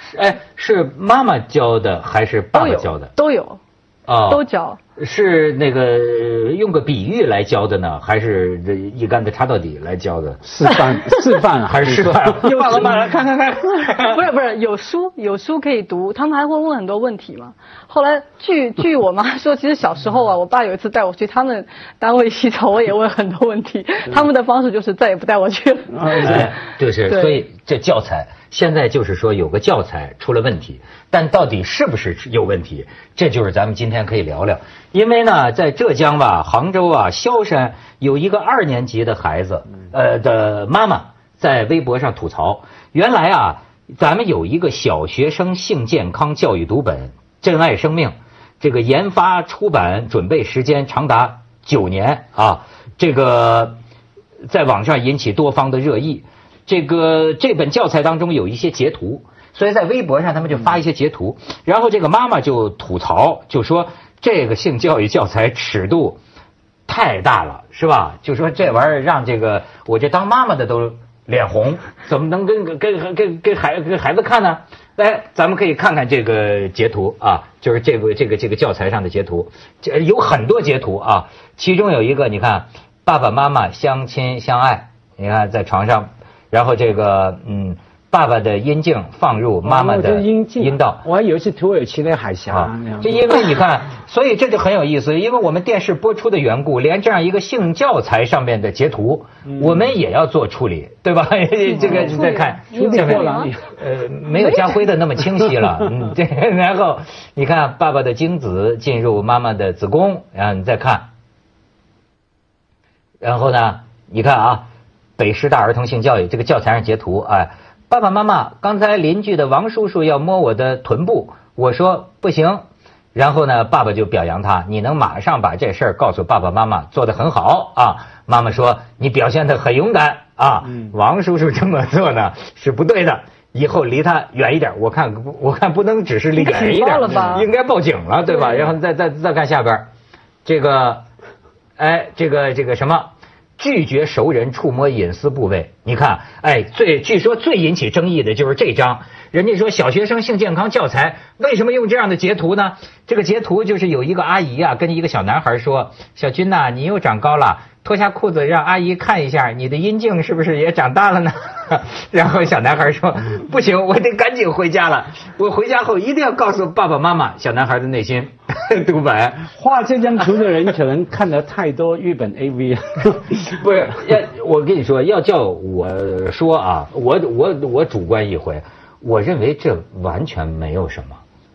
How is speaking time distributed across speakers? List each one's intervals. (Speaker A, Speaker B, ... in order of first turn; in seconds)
Speaker A: 0.1-3.1, 4.1-4.5, 5.0-10.4, 11.7-14.2, 26.2-53.8, 54.5-66.2, 66.9-91.0, 92.5-111.1, 113.2-114.7, 115.2-122.6, 123.1-139.9, 140.4-141.0, 141.8-169.5, 173.5-181.2
Speaker B: 2.5-3.6, 4.3-4.8, 13.8-26.5, 27.1-27.4, 101.7-103.5, 104.3-104.8, 136.4-137.5, 138.3-138.7
Speaker C: 10.4-13.0, 89.7-93.5, 101.8-103.7, 169.5-173.6